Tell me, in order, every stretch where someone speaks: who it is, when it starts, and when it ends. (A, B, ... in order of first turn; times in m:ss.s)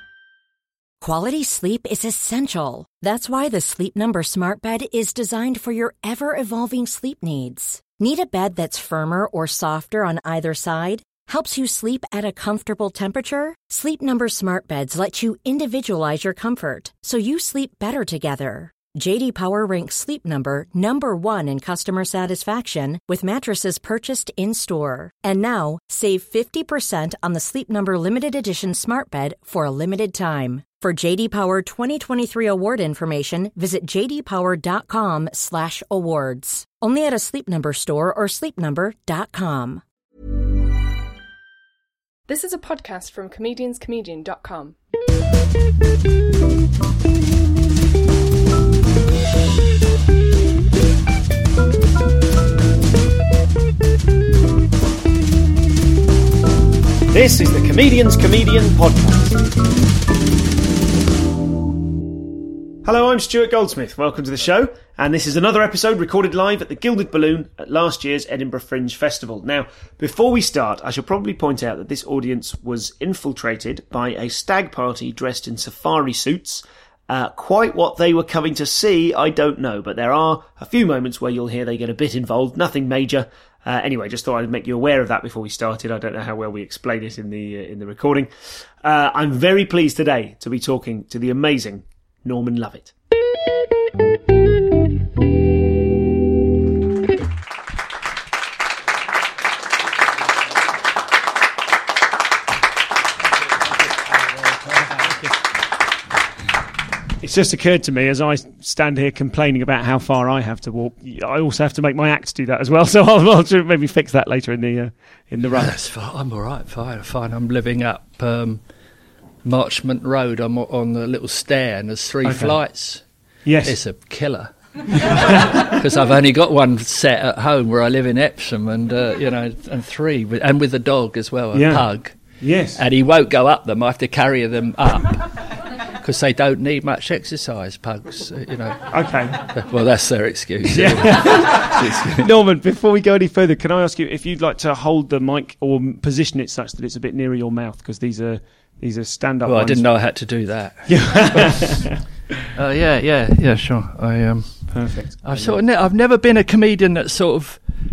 0:01.0-0:39.8 A
0:42.3-0:44.7 B
0:57.1-0:59.4 C
1:02.8-1:28.3 C
1:28.8-1:32.9 C
1:47.2-1:55.7 C
1:55.5-1:58.6 D
1:59.4-2:03.0 D
2:02.2-2:02.6 C
2:03.4-2:03.8 C
2:03.6-2:12.2 D
2:05.0-2:05.7 C
2:11.5-2:11.8 C
2:12.4-2:12.8 C
2:12.8-2:22.3 D
2:18.9-2:19.4 C
2:20.7-2:29.9 C
2:29.4-2:31.7 D
2:30.9-2:32.0 C
2:32.5-2:37.6 D
2:34.7-2:35.6 C